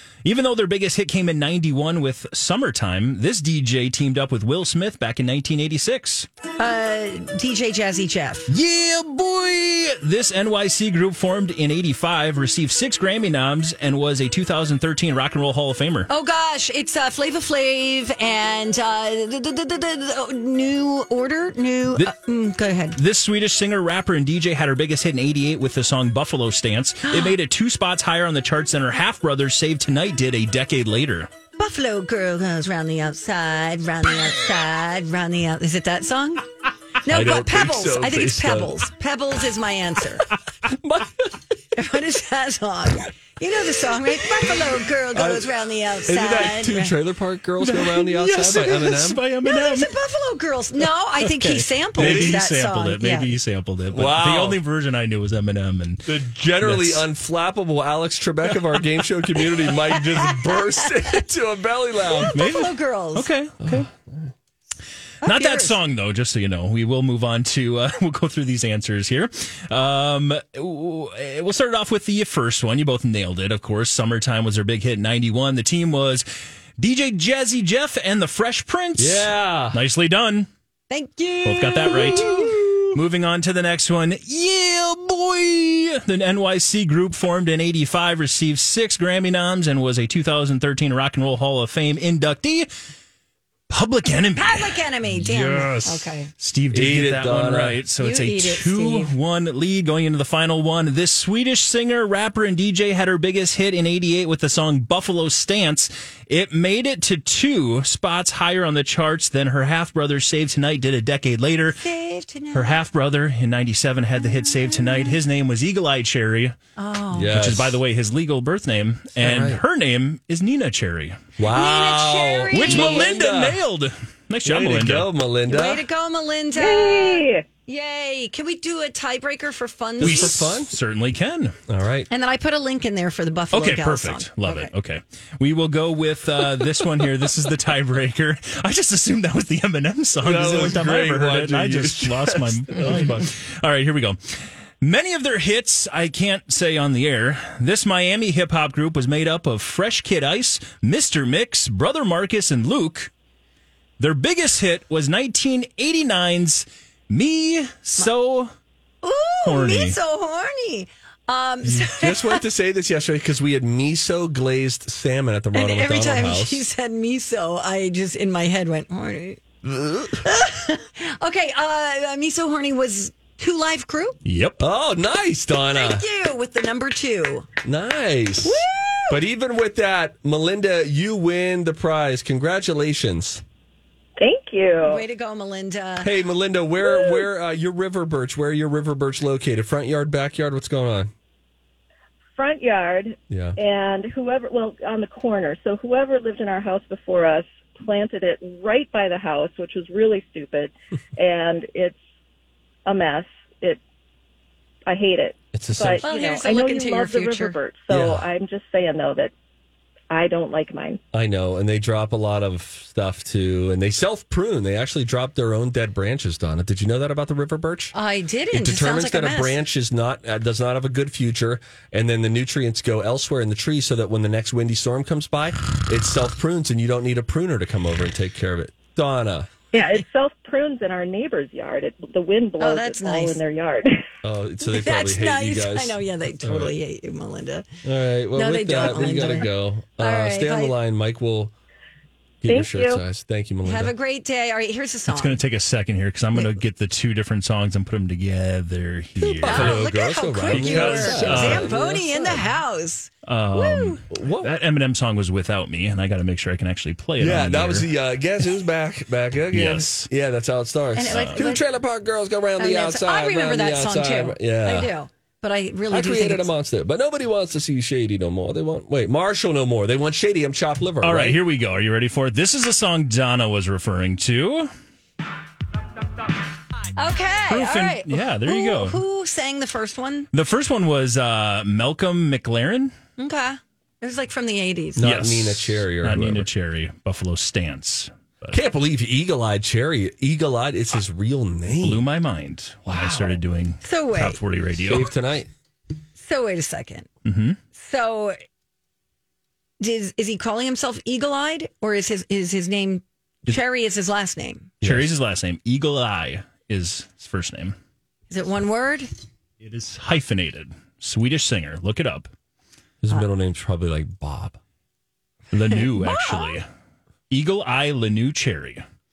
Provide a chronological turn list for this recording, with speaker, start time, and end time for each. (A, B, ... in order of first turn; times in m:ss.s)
0:00.2-0:06.3 A
0:06.6-0:08.5 B
0:08.5-0:16.1 A
0:16.1-0:23.0 B
0:23.0-0:31.3 A
0:27.1-0:27.4 B
0:31.6-0:36.5 B
0:37.0-0:40.2 B
0:37.1-0:38.7 C
0:40.6-0:41.3 C
0:41.7-0:46.9 B
0:45.1-0:49.2 C
0:47.6-0:49.9 A
0:49.4-0:53.3 B
0:51.2-0:57.0 A
0:52.0-0:52.4 C
0:53.9-0:54.6 C
0:56.1-1:02.6 C
0:59.9-1:00.9 B
1:02.2-1:03.3 B
1:02.3-1:03.9 A
1:03.6-1:04.3 C
1:05.2-1:05.7 B
1:05.2-1:16.2 A
1:16.8-1:20.5 A
1:19.0-1:19.8 C
1:20.9-1:22.3 B
1:21.4-1:22.3 A
1:21.8-1:22.9 C
1:22.9-1:32.7 A
1:33.7-1:51.8 A
1:34.4-1:36.3 B
1:36.7-1:37.8 C
1:38.0-1:39.1 B
1:51.7-1:52.8 B
1:52.5-1:56.6 A
1:54.4-1:55.1 B
1:56.8-1:57.4 B
1:57.1-1:57.8 C
1:57.3-2:01.2 A
1:59.2-1:59.6 C
2:01.4-2:03.6 C
2:01.5-2:03.2 B
2:02.5-2:05.1 A
2:04.4-2:05.8 C
2:05.5-2:10.4 B
2:06.5-2:07.4 D
2:10.0-2:10.7 C
2:10.0-2:11.6 A
2:11.7-2:12.1 C
2:12.1-2:14.7 B
2:13.5-2:33.1 A
2:20.2-2:23.2 C
2:34.0-2:38.5 A
2:39.0-2:42.4 B
2:39.4-2:40.0 A
2:41.6-2:46.6 C
2:45.5-2:49.4 B
2:49.6-2:50.2 C
2:50.2-2:54.2 B
2:54.2-2:54.6 A
2:54.6-2:56.0 C
2:55.7-2:57.5 B
2:57.6-3:03.4 C
2:58.4-2:59.2 B
3:04.2-3:05.0 D
3:04.8-3:06.1 B
3:06.0-3:11.1 C
3:06.8-3:07.3 D
3:12.4-3:22.0 D
3:13.3-3:13.6 C
3:22.8-3:23.8 D
3:24.9-3:29.3 D
3:25.5-3:26.0 C
3:26.0-3:27.6 B
3:27.9-3:28.2 C
3:30.1-3:31.0 D
3:31.1-3:37.9 C
3:37.9-3:39.6 B
3:38.5-3:49.5 C
3:49.7-3:54.0 D
3:52.6-3:53.4 B
3:54.2-3:56.7 C
3:54.6-3:57.6 B
3:57.8-4:01.5 C
3:58.3-4:00.7 B
4:02.4-4:03.9 C
4:02.4-4:03.0 D
4:03.6-4:05.4 B
4:05.1-4:09.8 A
4:09.2-4:12.4 C
4:09.4-4:14.0 B
4:10.5-4:11.7 A
4:13.2-4:17.9 A
4:14.1-4:14.5 C
4:17.2-4:24.9 C
4:19.5-4:20.1 A
4:20.9-4:21.6 B
4:21.1-4:21.4 A
4:22.6-4:26.5 B
4:25.9-4:31.4 C
4:31.0-4:34.7 A
4:37.0-4:40.3 B
4:37.5-4:39.0 A
4:40.3-4:42.9 A
4:43.2-4:45.0 B
4:45.0-4:46.5 C
4:45.0-4:48.6 A
4:48.5-4:52.0 C
4:51.8-4:55.1 A
4:52.9-4:53.4 C
4:53.8-4:54.4 B
4:54.8-4:55.5 C
4:56.2-4:57.1 B
4:57.2-4:57.6 A
4:57.8-4:58.4 B
4:59.8-5:04.7 B
5:04.8-5:05.1 C
5:04.8-5:07.8 A
5:08.3-5:09.1 B
5:09.6-5:12.3 A
5:13.0-5:14.6 C
5:15.5-5:16.7 A
5:15.7-5:16.6 B
5:17.3-5:18.8 A